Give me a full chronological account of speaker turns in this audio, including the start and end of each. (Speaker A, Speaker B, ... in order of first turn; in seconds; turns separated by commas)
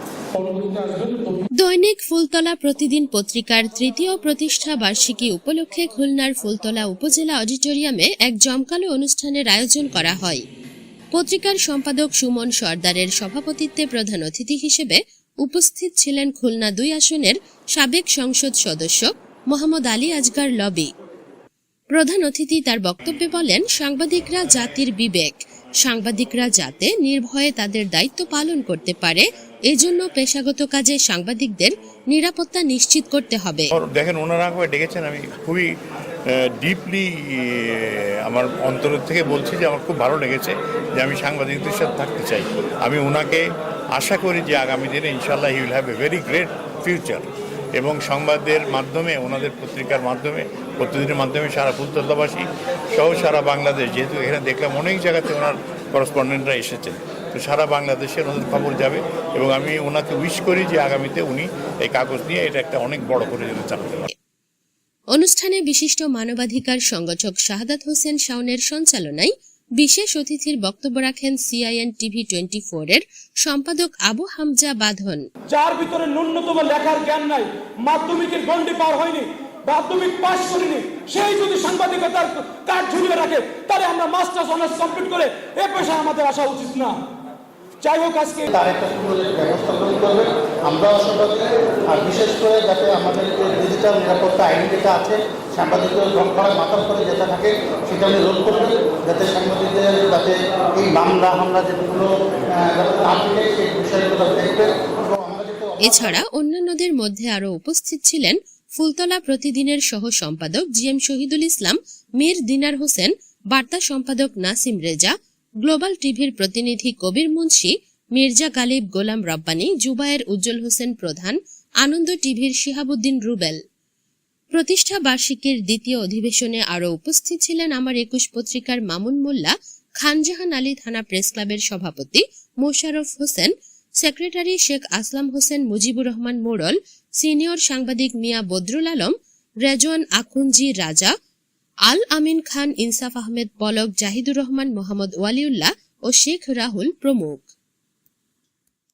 Speaker A: 0.3-1.5, Speaker B: 1.6-10.4, Speaker B: 11.1-20.9, Speaker B: 21.9-33.7, Speaker C: 33.7-35.7, Speaker C: 36.3-64.1, Speaker B: 65.1-75.2, Speaker A: 75.5-86.9, Speaker A: 87.8-88.5, Speaker D: 88.5-106.1, Speaker B: 105.8-123.6, Speaker B: 124.5-141.1, Speaker B: 141.9-147.5